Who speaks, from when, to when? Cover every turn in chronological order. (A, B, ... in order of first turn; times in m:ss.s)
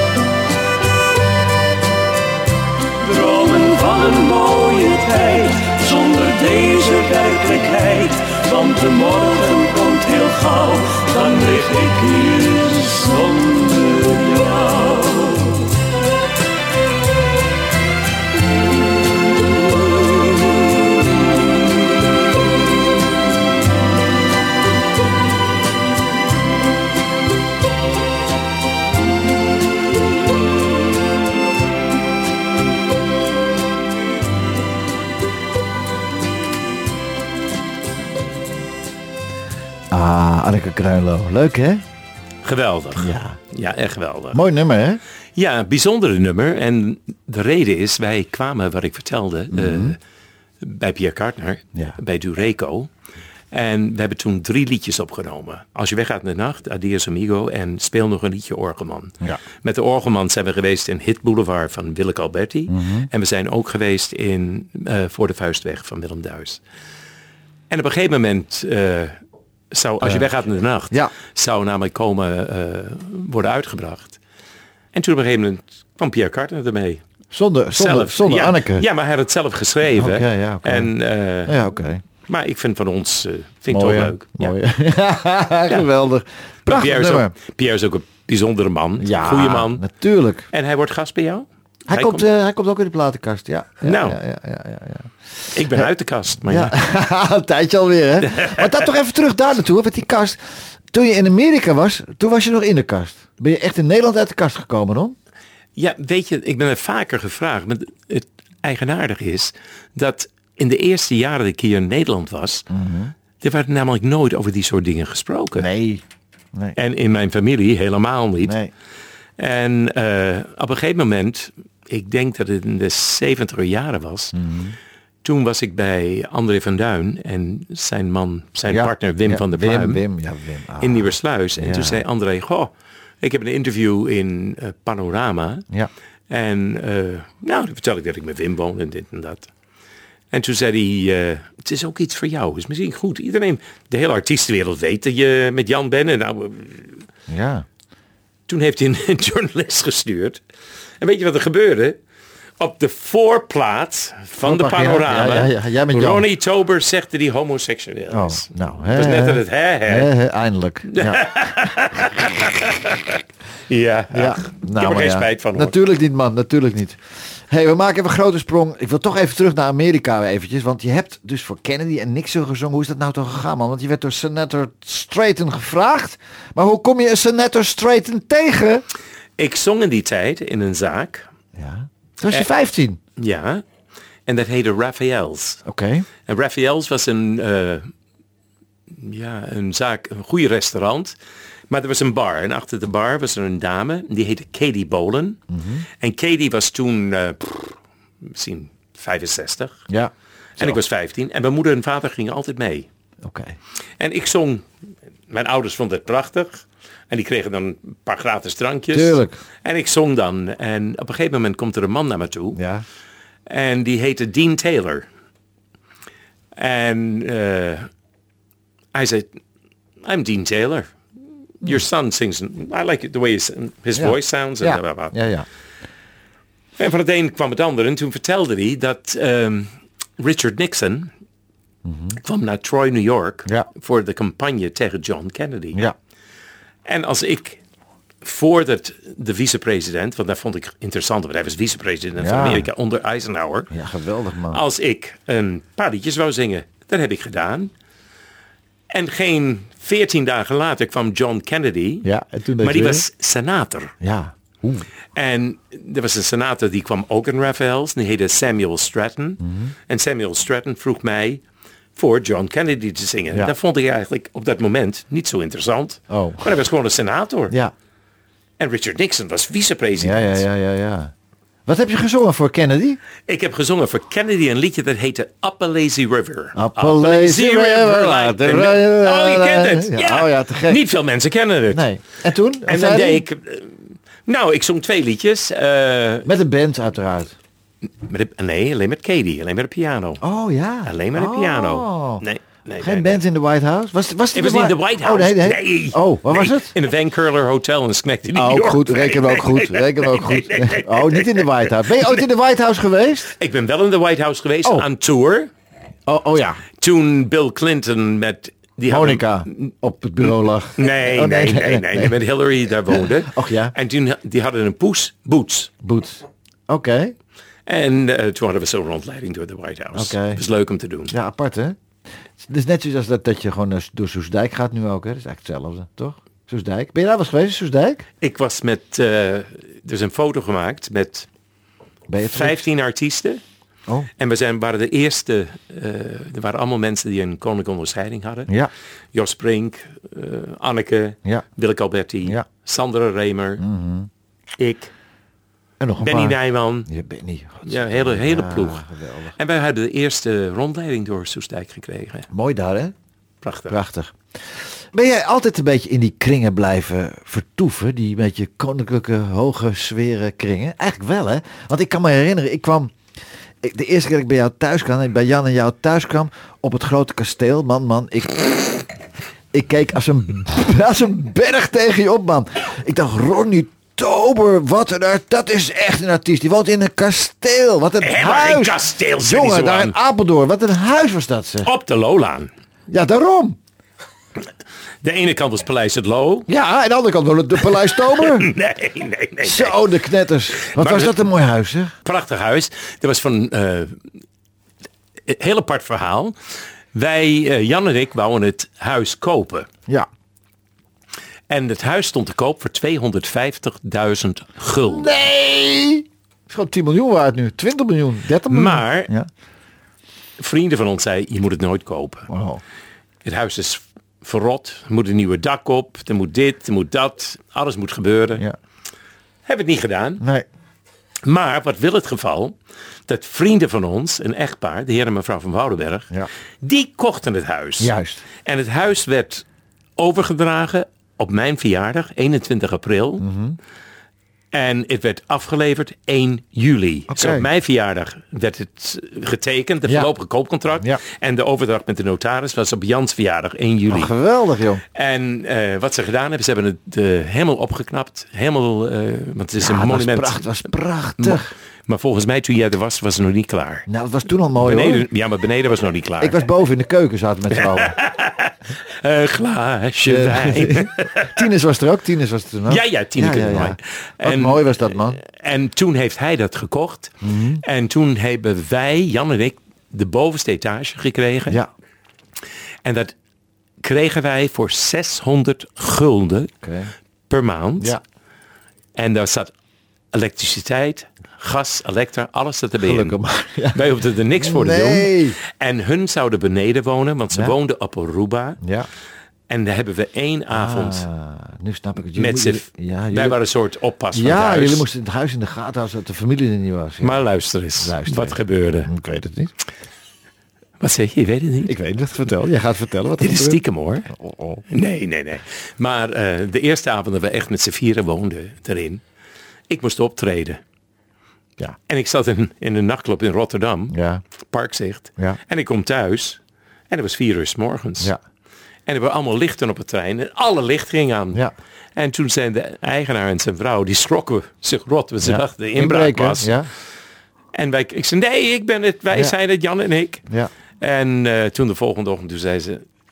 0:03.0-0:15.6 A
0:39.9-0:41.8 B
0:42.4-0:44.4 C
0:43.0-0:43.4 B
0:44.3-0:45.0 B
0:45.4-0:50.0 C
0:49.5-0:50.0 B
0:50.6-0:52.9 C
0:53.5-1:06.6 C
1:02.7-1:03.1 B
1:07.7-1:09.2 C
1:09.7-1:14.2 C
1:10.0-1:10.3 B
1:14.9-1:17.0 C
1:17.3-1:18.9 B
1:17.7-1:21.6 C
1:20.0-1:20.9 B
1:21.4-1:22.0 B
1:22.3-1:24.6 C
1:23.7-1:27.3 B
1:26.7-1:29.8 C
1:29.0-1:30.5 B
1:30.5-1:32.2 C
1:31.9-1:35.1 B
1:33.8-1:34.2 C
1:35.5-1:36.8 C
1:36.4-1:40.4 B
1:38.2-1:38.6 C
1:40.9-1:45.2 B
1:45.8-1:52.7 C
1:52.7-1:53.1 B
1:53.4-1:55.7 C
1:55.6-1:56.0 B
1:56.8-1:58.6 C
1:58.4-1:58.7 B
1:59.4-2:04.4 C
2:04.3-2:04.8 B
2:05.2-2:10.0 C
2:08.7-2:12.0 B
2:10.8-2:15.7 C
2:16.3-2:19.5 C
2:20.3-2:27.0 C
2:27.3-2:27.6 B
2:28.5-2:30.4 C
2:31.0-2:32.0 C
2:32.6-2:40.1 C
2:34.4-2:36.3 B
2:38.1-2:41.4 B
2:40.9-2:45.8 C
2:44.1-2:58.8 B
2:59.4-3:01.3 C
3:01.6-3:03.0 B
3:03.2-3:03.6 C
3:04.3-3:05.6 C
3:05.7-3:06.1 B
3:06.2-3:07.9 C
3:08.9-3:11.2 C
3:11.7-3:15.4 C
3:15.5-3:15.8 B
3:16.0-3:19.8 C
3:19.9-3:20.8 B
3:20.6-3:22.9 C
3:23.2-3:23.6 B
3:24.0-3:24.7 C
3:25.3-3:32.6 C
3:28.9-3:29.4 B
3:32.6-3:32.8 B
3:33.5-3:35.1 C
3:36.6-3:37.9 C
3:38.9-3:39.3 C
3:40.0-3:40.9 C
3:41.6-3:45.2 C
3:44.0-3:45.5 B
3:46.8-3:51.1 C
3:51.8-3:52.2 B
3:52.2-3:55.8 C
3:56.9-3:57.6 C
3:58.2-4:03.7 C
4:02.2-4:02.7 B
4:03.7-4:04.6 B
4:04.5-4:07.7 C
4:08.9-4:12.1 C
4:12.0-4:13.0 B
4:12.6-4:13.9 C
4:14.0-4:14.9 B
4:15.2-4:21.4 C
4:19.4-4:19.7 B
4:22.0-4:27.6 C
4:26.1-4:26.4 B
4:28.6-4:30.4 C
4:30.0-4:31.1 B
4:31.7-4:33.0 B
4:33.3-4:41.8 C
4:36.5-4:40.8 B
4:41.7-4:43.2 B
4:42.7-4:46.3 C
4:46.2-4:47.4 B
4:48.0-4:50.2 C
4:50.2-4:52.2 B
4:50.8-4:53.2 C
4:52.8-4:56.7 B
4:54.3-5:02.2 C
4:58.3-5:03.3 B
5:03.4-5:05.5 C
5:06.1-5:06.6 B
5:06.8-5:09.7 C
5:08.9-5:12.2 B
5:10.8-5:15.7 C
5:12.9-5:13.7 B
5:15.8-5:17.2 B
5:17.7-5:21.1 C
5:19.9-5:20.4 B
5:21.1-5:21.8 B
5:22.4-5:28.0 B
5:28.2-5:31.3 C
5:32.1-5:32.6 B
5:32.3-5:33.4 C
5:34.2-5:38.5 C
5:39.1-5:43.6 C
5:43.6-5:44.1 B
5:44.6-5:44.9 C
5:45.8-5:49.3 B
5:46.0-5:46.9 C
5:47.6-5:48.8 C
5:49.4-5:52.3 C
5:52.3-5:52.9 B
5:53.4-5:53.8 C
5:53.7-5:54.2 B
5:54.9-6:02.9 B
6:03.6-6:08.9 B
6:09.5-6:21.7 B
6:18.0-6:20.0 C
6:21.6-6:22.5 C
6:22.9-6:23.6 B
6:25.0-6:26.5 C
6:26.5-6:28.5 B
6:28.1-6:29.8 C
6:29.4-6:31.9 B
6:30.6-6:31.2 C
6:32.0-6:34.0 C
6:35.3-6:36.4 C
6:36.9-6:39.7 C
6:41.5-6:45.1 C
6:44.8-6:49.3 B
6:48.5-6:49.1 C
6:50.4-6:52.3 C
6:52.3-6:52.6 B
6:53.2-6:58.4 C
6:59.5-7:00.2 C
7:00.2-7:00.5 B
7:01.2-7:02.6 C
7:03.1-7:06.1 C
7:06.6-7:07.9 C
7:07.8-7:08.2 B
7:08.4-7:09.4 C
7:10.0-7:13.2 C
7:13.2-7:13.6 B
7:14.5-7:24.1 C
7:17.1-7:17.5 B
7:19.9-7:20.1 B
7:23.9-7:24.8 B
7:25.0-7:30.4 C
7:29.6-7:31.5 B
7:31.2-7:33.9 C
7:33.9-7:35.1 B
7:34.6-7:36.4 C
7:36.2-7:38.0 B
7:37.5-7:41.4 C
7:40.0-7:45.2 B
7:42.7-7:51.6 C
7:47.2-7:47.6 B
7:52.8-7:53.1 C
7:53.8-7:56.5 C
7:56.6-7:56.9 B
7:57.3-7:58.0 C
7:59.0-7:59.5 C
8:00.1-8:03.2 C
8:02.8-8:05.4 B
8:03.7-8:08.6 C
8:08.6-8:08.9 B
8:09.5-8:11.1 C
8:10.5-8:13.4 B
8:12.2-8:14.9 C
8:14.1-8:17.2 B
8:17.0-8:18.9 C
8:17.8-8:19.5 B
8:20.8-8:21.7 C
8:21.7-8:24.6 B
8:23.2-8:24.1 C
8:24.7-8:29.0 C
8:29.7-8:30.6 C
8:31.9-8:34.0 C
8:33.9-8:34.2 B
8:34.5-8:36.4 C
8:36.9-8:38.1 C
8:38.9-8:41.4 C
8:42.0-8:46.5 C
8:45.2-8:46.7 B
8:47.5-8:50.2 C
8:50.8-8:52.8 C